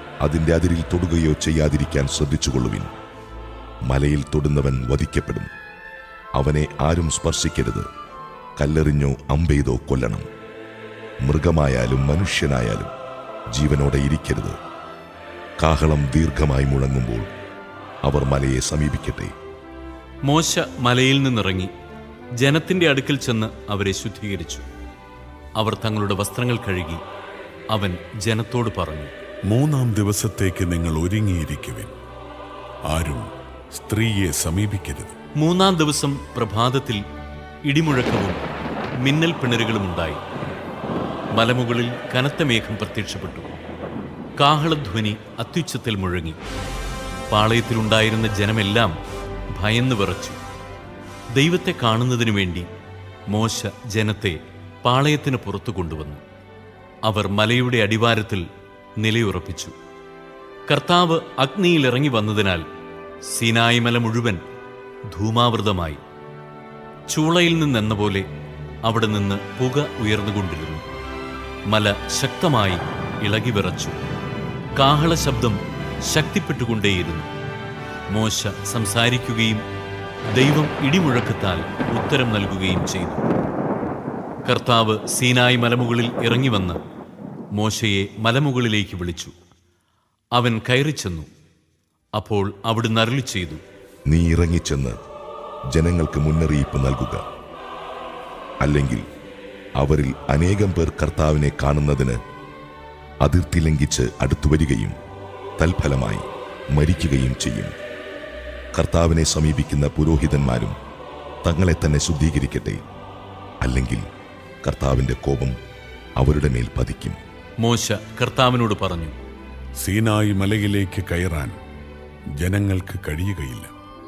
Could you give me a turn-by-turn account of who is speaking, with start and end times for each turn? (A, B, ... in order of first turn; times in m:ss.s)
0:00.2-0:02.9 A
0:03.9-0:05.5 A
0:06.4-0:07.9 A
0:08.6-0:10.2 A
0:11.2-0:12.9 A
0:13.5-0:14.6 A
0:15.6-0:17.3 A
0:18.0-0:19.3 A
0:20.2-0:21.7 B
0:22.4-0:24.6 B
0:25.6-0:27.0 B
0:27.7-0:29.1 B
0:29.5-0:31.9 C
0:32.9-0:35.2 C
0:35.4-0:37.0 B
0:37.7-0:38.4 B
0:39.0-0:40.2 B
0:41.3-0:43.5 B
0:44.4-0:46.4 B
0:47.3-0:49.0 B
0:49.6-0:50.4 B
0:51.4-0:52.7 B
0:53.3-0:56.2 B
0:57.0-0:58.4 B
0:59.0-0:59.7 B
1:00.7-1:02.6 B
1:03.3-1:04.4 B
1:05.1-1:06.0 B
1:07.1-1:08.3 B
1:08.8-1:10.8 B
1:11.7-1:14.0 B
1:14.8-1:17.3 B
1:18.1-1:19.6 B
1:20.4-1:23.2 B
1:24.5-1:26.8 B
1:27.6-1:29.3 B
1:30.4-1:31.3 B
1:32.2-1:33.6 B
1:34.1-1:35.0 A
1:35.7-1:37.2 A
1:38.6-1:39.0 A
1:39.8-1:42.2 A
1:43.2-1:44.9 A
1:45.6-1:47.7 A
1:48.7-1:50.8 A
1:51.4-1:52.8 A
1:53.6-1:54.0 A
1:54.6-1:55.6 A
1:56.2-1:57.2 A
1:57.6-1:59.2 B
1:59.8-2:01.6 C
2:02.4-2:03.7 C